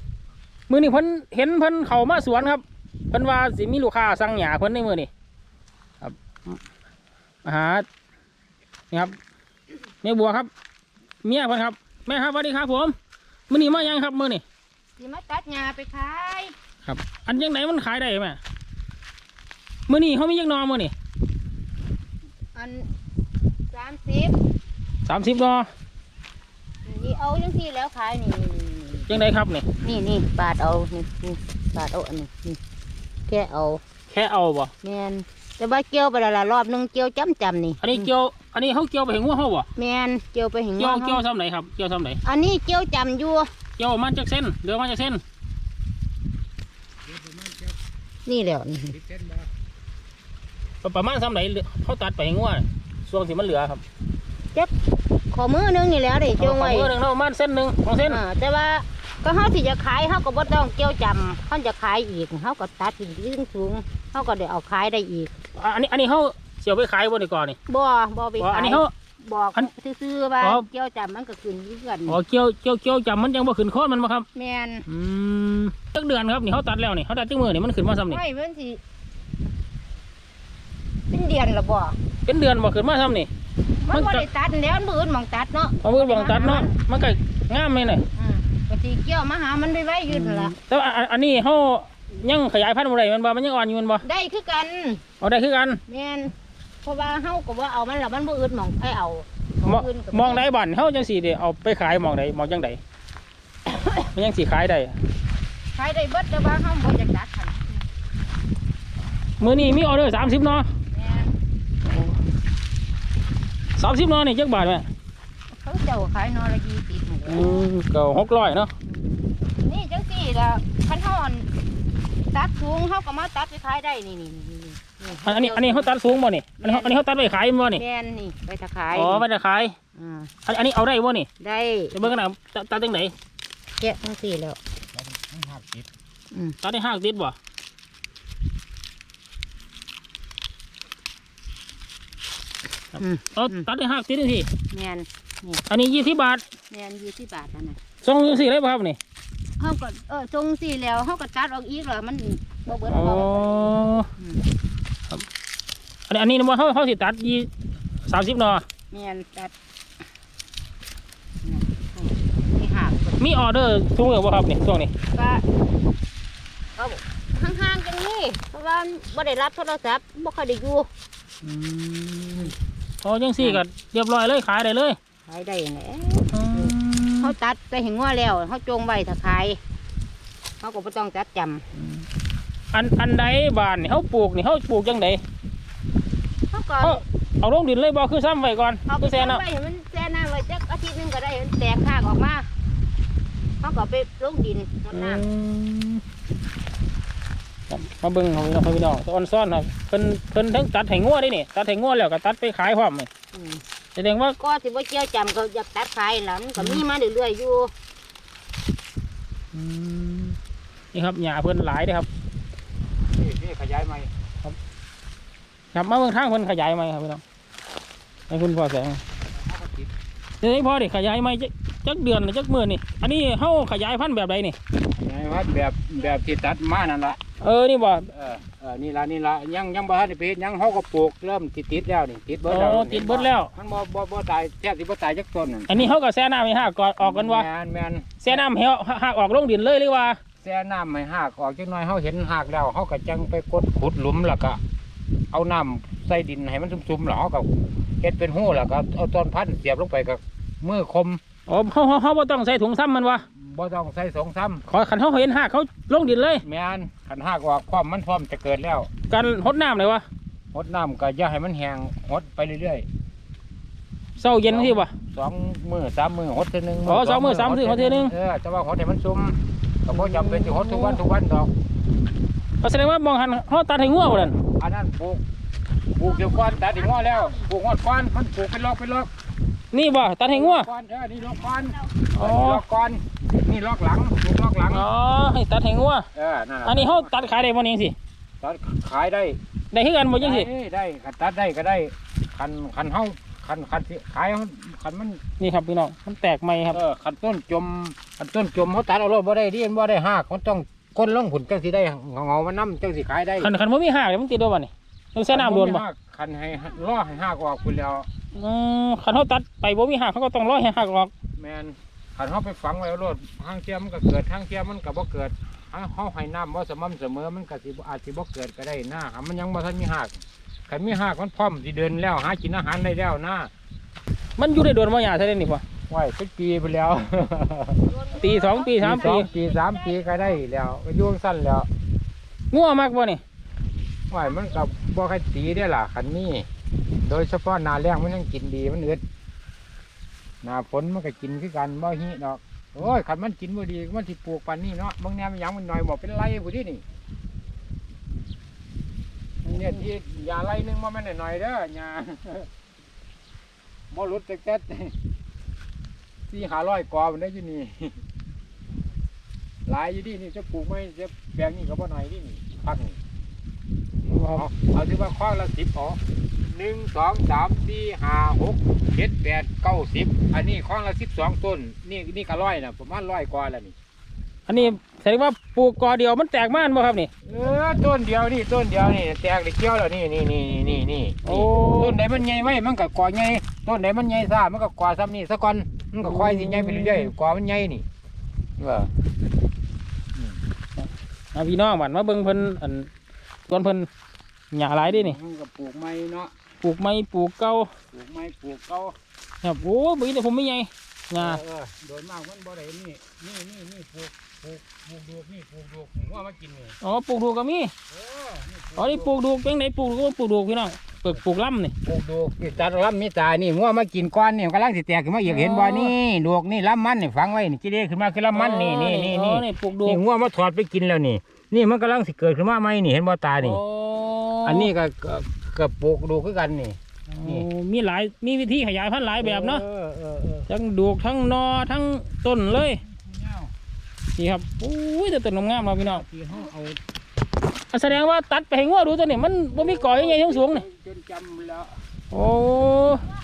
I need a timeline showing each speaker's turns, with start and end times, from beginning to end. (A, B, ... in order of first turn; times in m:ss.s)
0:00.7-0:05.1 A
0:06.0-0:06.6 A
0:07.4-0:07.9 A
0:08.9-0:09.2 A
0:10.0-0:10.5 A
0:11.2-0:13.0 A
0:13.5-0:14.4 A
0:15.0-0:16.5 B
0:16.8-0:18.4 A
0:19.9-0:20.9 A
0:22.6-0:22.9 B
0:23.7-0:24.4 B
0:25.1-0:25.7 A
0:26.8-0:29.1 B
0:29.1-0:29.7 A
0:29.8-0:32.6 B
0:33.3-0:33.8 B
0:34.1-0:34.7 A
0:34.8-0:38.1 B
0:37.8-0:39.7 A
0:39.8-0:41.2 B
0:40.8-0:42.2 A
0:42.2-0:43.5 B
0:43.8-0:45.2 A
0:47.1-0:47.8 C
0:48.3-0:49.0 B
0:48.9-0:49.5 C
0:50.8-0:53.8 A
0:55.3-0:56.9 B
0:56.4-0:58.2 A
0:58.1-1:05.3 B
1:05.6-1:07.6 A
1:07.7-1:12.2 B
1:08.4-1:08.9 A
1:12.1-1:14.3 A
1:14.4-1:14.9 B
1:14.9-1:18.2 A
1:18.1-1:18.8 B
1:21.1-1:22.0 B
1:22.3-1:23.3 A
1:23.8-1:26.7 B
1:23.9-1:24.2 A
1:25.8-1:28.0 A
1:28.2-1:30.5 B
1:30.1-1:34.0 A
1:34.0-1:35.0 B
1:35.2-1:35.8 A
1:35.9-1:40.4 B
1:39.6-1:42.8 A
1:43.9-1:45.0 A
1:45.8-1:47.9 B
1:49.4-1:50.7 A
1:50.9-1:51.3 B
1:51.8-1:52.2 A
1:53.8-1:54.9 A
1:55.6-1:57.7 B
1:57.3-1:58.7 A
1:59.5-2:01.5 B
2:02.3-2:05.9 B
2:05.2-2:07.8 A
2:06.6-2:07.0 B
2:07.7-2:09.2 B
2:08.9-2:09.8 A
2:10.0-2:10.3 B
2:10.5-2:11.3 A
2:11.4-2:12.1 B
2:11.9-2:13.1 A
2:13.8-2:14.6 B
2:14.9-2:15.9 C
2:16.3-2:16.6 B
2:16.6-2:17.4 A
2:23.0-2:23.6 B
2:23.0-2:24.5 A
2:24.7-2:25.6 B
2:25.7-2:26.4 A
2:26.7-2:27.8 B
2:28.0-2:29.0 A
2:29.6-2:34.4 B
2:32.9-2:34.1 A
2:36.1-2:37.5 A
2:38.1-2:38.6 A
2:38.9-2:39.5 B
2:41.4-2:43.2 B
2:43.2-2:44.9 A
2:45.1-2:45.4 B
2:46.8-2:50.9 B
2:51.4-2:55.0 A
2:55.3-2:59.6 B
2:56.3-2:57.3 A
3:00.6-3:01.6 B
3:01.8-3:02.0 A
3:02.7-3:05.2 A
3:06.5-3:07.0 B
3:06.8-3:09.4 A
3:08.9-3:12.5 B
3:13.6-3:15.2 B
3:14.9-3:16.0 A
3:17.7-3:23.1 A
3:23.3-3:23.6 B
3:24.0-3:24.4 A
3:24.4-3:27.7 B
3:29.5-3:30.4 A
3:30.9-3:32.1 A
3:33.1-3:34.1 C
3:35.7-3:37.2 A
3:38.3-3:39.0 A
3:39.3-3:39.9 C
3:40.4-3:44.6 A
3:44.9-3:47.2 C
3:47.4-3:48.1 A
3:48.1-3:55.8 C
3:52.5-3:53.5 A
3:55.7-3:57.5 A
3:57.0-3:58.2 C
3:58.2-4:00.2 A
4:00.4-4:04.6 C
4:05.3-4:11.2 C
4:11.5-4:13.2 A
4:13.3-4:14.6 C
4:14.7-4:16.4 A
4:16.4-4:18.9 C
4:19.1-4:20.0 A
4:20.5-4:22.9 C
4:24.2-4:24.9 A
4:24.5-4:31.5 C
4:26.8-4:28.1 A
4:29.9-4:31.0 A
4:32.6-4:34.4 A
4:34.6-4:35.2 C
4:36.0-4:39.1 C
4:37.0-4:37.3 B
4:39.7-4:40.7 A
4:40.3-4:44.9 C
4:42.1-4:42.6 A
4:44.7-4:46.1 A
4:46.2-4:47.1 C
4:46.6-4:48.0 A
4:48.4-4:49.4 C
4:49.7-4:50.5 A
4:50.2-4:55.2 C
4:55.4-4:56.8 A
4:56.7-5:03.5 C
5:03.4-5:05.8 A
5:05.3-5:08.1 C
5:08.4-5:11.1 A
5:11.4-5:23.5 C
5:24.4-5:25.6 A
5:25.9-5:27.9 C
5:27.9-5:29.1 B
5:28.2-5:29.3 A
5:28.8-5:31.7 C
5:32.5-5:33.2 A
5:34.1-5:36.5 C
5:37.0-5:39.0 C
5:40.4-5:46.8 C
5:49.4-5:52.5 C
5:53.9-5:54.9 C
5:56.3-5:58.0 C
5:59.7-6:03.0 C
6:04.1-6:04.5 A
6:04.3-6:13.7 C
6:14.5-6:17.1 A
6:17.3-6:27.8 C
6:21.2-6:22.0 A
6:26.0-6:27.1 A
6:28.6-6:28.9 C
6:30.8-6:32.9 A
6:33.5-6:33.9 A
6:34.5-6:35.2 A
6:34.8-6:36.3 C
6:36.6-6:37.7 A
6:37.9-6:39.0 C
6:39.4-6:41.4 A
6:41.2-6:46.8 C
6:46.8-6:47.7 A
6:47.9-6:49.1 C
6:48.8-6:51.7 A
6:51.8-7:03.6 C
6:55.2-6:56.0 A
6:58.3-7:00.0 A
7:03.4-7:04.7 A
7:04.4-7:07.5 C
7:07.1-7:09.6 A
7:09.2-7:10.5 C
7:10.5-7:12.8 A
7:12.8-7:13.5 C
7:14.2-7:16.0 A
7:15.9-7:16.8 C
7:17.7-7:20.6 A
7:19.5-7:21.8 C
7:22.1-7:23.1 A